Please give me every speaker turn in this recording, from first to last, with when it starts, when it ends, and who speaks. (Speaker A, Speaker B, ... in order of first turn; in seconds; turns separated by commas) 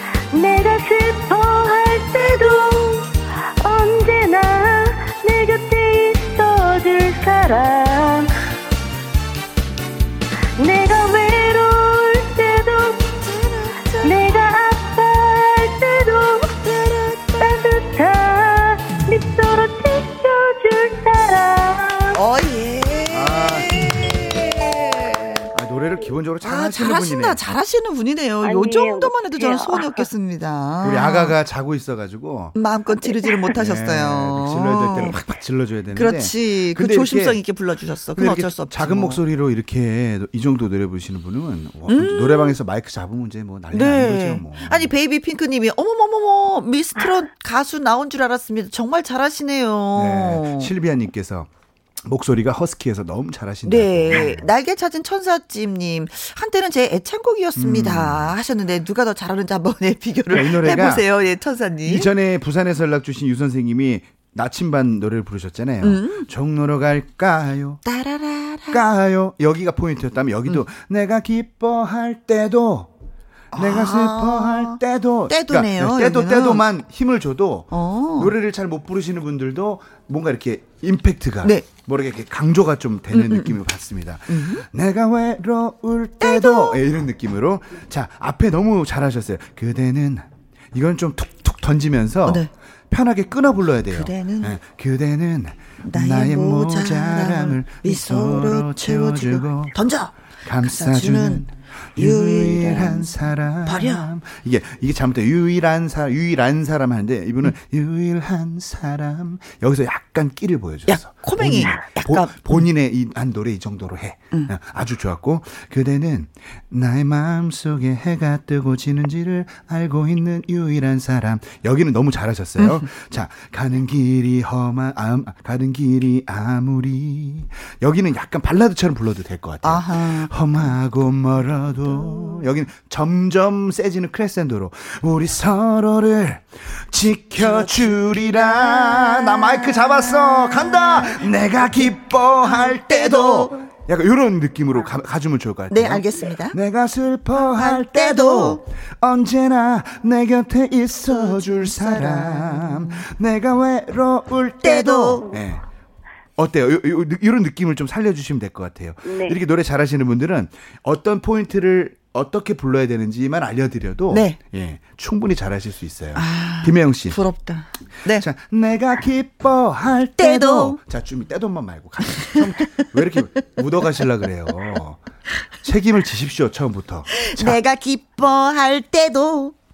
Speaker A: 0.3-8.3, Speaker A: 10.6-13.1, Speaker B: 13.1-14.5, Speaker A: 14.0-16.7, Speaker B: 16.7-17.2, Speaker A: 17.3-22.2, Speaker B: 22.1-25.5, Speaker C: 23.1-24.1, Speaker C: 25.5-27.4, Speaker B: 26.4-31.4, Speaker A: 28.4-30.1, Speaker C: 30.8-32.6, Speaker B: 32.5-35.2, Speaker A: 33.2-33.5, Speaker C: 33.5-37.4, Speaker B: 36.0-39.2, Speaker C: 38.2-44.9, Speaker B: 41.9-42.6, Speaker B: 43.7-50.7, Speaker C: 50.0-51.5, Speaker C: 52.0-54.5, Speaker B: 53.6-62.1, Speaker C: 57.6-58.3, Speaker C: 60.3-61.1, Speaker C: 61.9-67.8, Speaker B: 65.8-66.3, Speaker B: 67.8-68.8, Speaker C: 68.7-72.9, Speaker C: 73.5-99.8, Speaker B: 73.5-76.6, Speaker B: 77.7-78.3, Speaker B: 83.1-83.6, Speaker B: 84.3-84.7, Speaker B: 86.2-86.8, Speaker B: 93.9-94.6, Speaker B: 95.8-101.5, Speaker C: 100.5-155.6, Speaker B: 102.0-103.1, Speaker B: 103.7-104.1, Speaker B: 110.9-112.7, Speaker B: 122.6-122.9, Speaker B: 129.6-130.3, Speaker B: 132.0-132.3, Speaker B: 137.4-141.2, Speaker B: 142.4-143.6, Speaker B: 145.7-146.6, Speaker B: 147.3-148.6, Speaker B: 151.1-153.1, Speaker B: 154.6-155.2, Speaker C: 156.4-167.2, Speaker A: 159.1-159.4, Speaker B: 164.1-164.4, Speaker B: 166.2-168.2, Speaker C: 168.2-175.0, Speaker B: 170.2-170.8, Speaker B: 172.2-172.8, Speaker C: 175.6-177.6, Speaker B: 177.1-179.6